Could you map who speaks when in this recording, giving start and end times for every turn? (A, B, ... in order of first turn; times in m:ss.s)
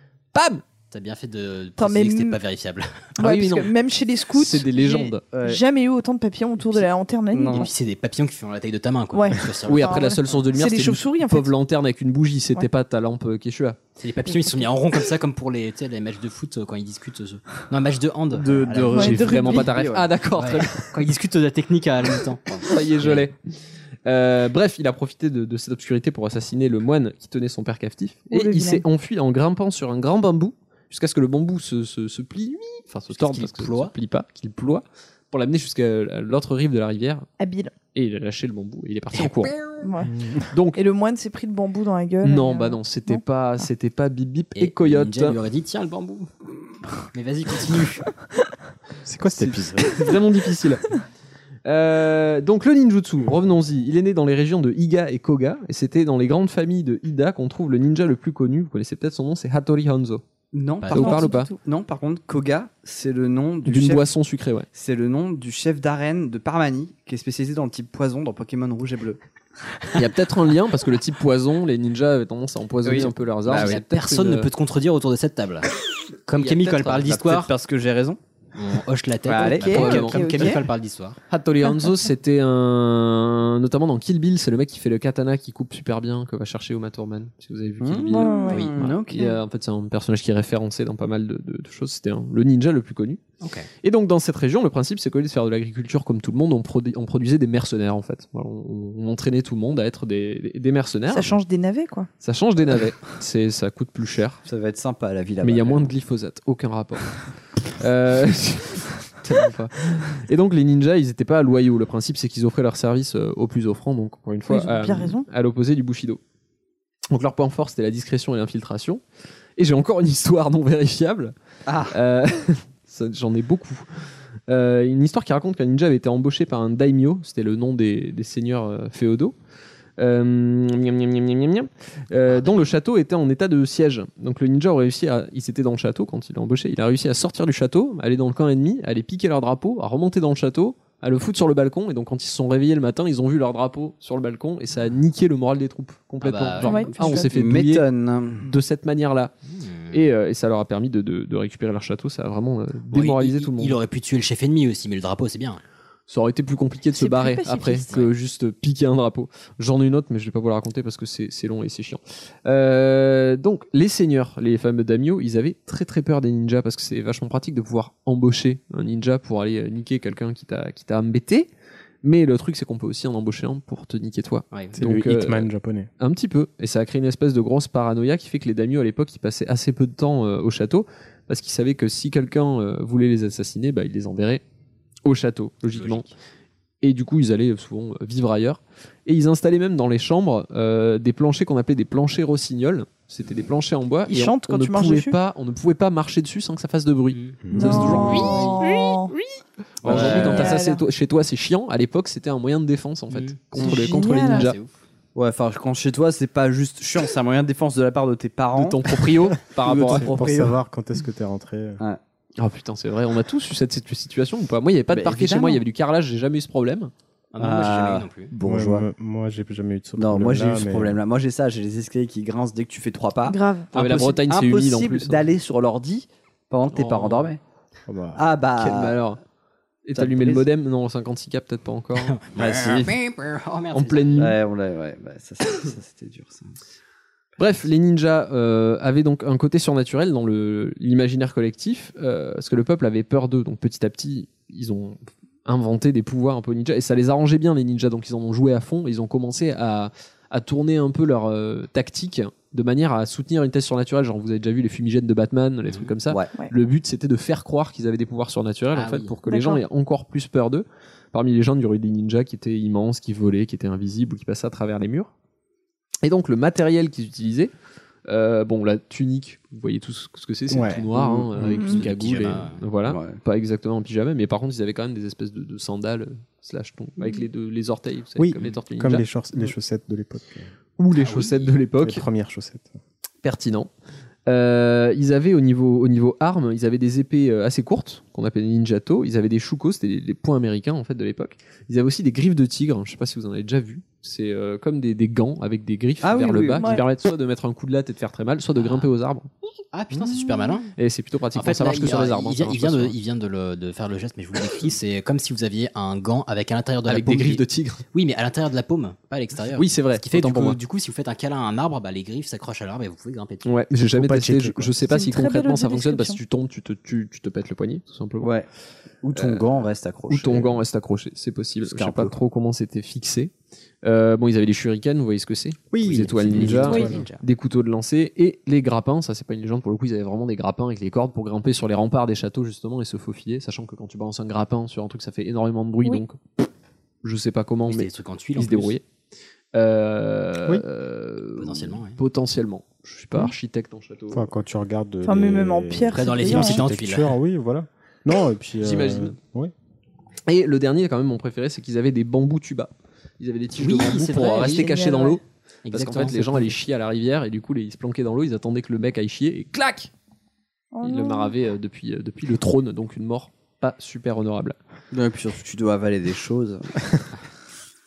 0:00.3-0:00.6 A
0:00.9-0:03.1 B
0:01.8-0:02.4 C
0:03.2-0:03.7 A
0:03.2-0:07.7 C
0:04.3-0:05.2 A
0:05.3-0:05.6 D
0:06.7-0:07.7 D
0:07.5-0:10.2 B
0:09.1-0:11.5 C
0:09.7-0:13.8 A
0:14.0-0:19.2 B
0:18.4-0:20.8 A
0:18.5-0:20.1 D
0:18.9-0:19.7 C
0:20.4-0:22.4 B
0:22.6-0:23.4 A
0:24.0-0:37.2 A
0:28.3-0:28.8 C
0:33.1-0:33.9 B
0:37.4-0:37.7 C
0:37.9-0:39.6 A
0:39.2-0:39.8 B
0:39.8-0:40.1 C
0:40.1-0:40.5 E
0:40.5-0:40.8 A
0:40.7-0:43.2 C
0:42.2-0:45.4 A
0:44.5-0:46.3 B
0:47.1-0:48.1 B
0:49.0-0:50.0 E
0:49.3-0:50.9 A
0:51.6-1:00.2 A
1:00.5-1:04.0 D
1:00.9-1:01.5 A
1:01.0-1:01.6 C
1:03.6-1:04.7 A
1:04.7-1:09.2 D
1:09.9-1:14.5 A
1:12.8-1:13.8 D
1:13.5-1:15.7 B
1:16.3-1:17.5 B
1:16.4-1:18.2 D
1:18.6-1:21.2 B
1:19.2-1:20.6 D
1:19.4-1:20.6 C
1:19.6-1:20.2 A
1:21.3-1:33.2 A
1:27.8-1:29.3 D
1:28.1-1:28.7 C
1:33.4-1:33.7 B
1:33.8-1:41.4 A
1:41.1-1:42.1 C
1:42.2-1:44.4 A
1:44.4-1:45.9 D
1:45.4-1:47.2 A
1:47.8-1:56.2 A
1:54.5-1:55.2 C
1:57.1-1:59.0 A
1:59.6-2:01.3 A
2:01.7-2:02.0 D
2:01.9-2:03.8 A
2:04.5-2:09.3 A
2:10.0-2:27.8 A
2:12.4-2:12.6 B
2:26.2-2:26.9 B
2:26.6-2:27.3 C
2:26.7-2:28.5 D
2:28.4-2:29.3 A
2:29.5-2:30.0 B
2:29.9-2:33.8 A
2:32.9-2:35.6 B
2:36.1-2:51.5 A
2:36.9-2:37.9 C
2:52.0-2:55.5 A
2:54.8-2:55.9 E
2:56.0-3:04.4 A
3:05.0-3:06.0 A
3:05.7-3:06.1 B
3:06.8-3:18.9 A
3:14.1-3:15.2 C
3:17.1-3:17.4 B
3:17.4-3:18.0 E
3:17.5-3:19.1 C
3:18.1-3:18.6 B
3:19.8-3:20.5 B
3:19.8-3:24.6 A
3:19.8-3:20.5 D
3:20.0-3:20.8 C
3:23.1-3:23.4 B
3:23.6-3:24.5 C
3:24.2-3:24.7 B
3:25.1-3:30.6 D
3:28.5-3:30.2 A
3:29.9-3:31.8 E
3:32.4-3:36.9 A
3:34.9-3:35.6 D
3:37.3-3:38.3 B
3:37.4-3:38.9 D
3:38.4-3:41.0 E
3:40.0-3:47.4 D
3:43.2-3:43.7 C
3:43.7-3:45.2 A
3:46.7-3:47.3 A
3:47.9-3:48.2 E
3:48.1-3:49.0 D
3:48.6-3:49.2 A
3:49.8-3:52.2 A
3:50.0-3:50.4 D
3:52.0-3:54.4 B
3:52.3-3:52.9 D
3:53.7-3:54.4 A
3:54.2-3:56.5 D
3:57.4-4:25.1 A
4:18.7-4:19.1 B
4:19.3-4:19.6 C
4:26.0-4:27.5 A
4:28.1-4:39.0 A
4:30.5-4:31.5 E
4:31.0-4:31.2 D
4:31.5-4:32.6 B
4:31.6-4:31.8 C
4:32.8-4:33.2 D
4:38.2-4:40.5 E
4:40.8-4:42.0 A
4:41.0-4:41.5 B
4:41.8-4:42.7 E
4:43.2-4:43.7 A
4:44.3-4:59.3 A
4:56.0-4:56.8 D
4:56.6-4:56.8 C
4:58.6-4:58.9 B
4:59.7-5:00.7 B
5:00.7-5:02.9 A
5:01.3-5:13.5 B
5:06.9-5:07.8 A
5:09.6-5:10.6 A
5:13.4-5:18.3 A
5:13.8-5:14.7 E
5:14.9-5:16.2 C
5:18.2-5:18.5 D
5:19.0-5:20.5 D
5:19.1-5:23.3 A
5:21.6-5:22.1 D
5:23.8-5:36.2 A
5:25.8-5:27.0 E
5:25.8-5:27.2 D
5:37.0-5:38.8 A
5:37.6-5:38.8 B
5:39.5-5:44.3 A
5:41.4-5:42.0 B
5:44.1-5:49.5 E
5:45.0-5:46.7 C
5:45.9-5:47.1 B
5:48.6-5:49.1 A
5:50.3-5:55.2 A
5:53.6-5:54.7 B
5:54.3-5:55.2 C
5:55.6-5:56.5 B
5:55.7-5:59.9 A
6:00.7-6:01.3 C
6:00.8-6:04.5 A
6:04.9-6:07.0 D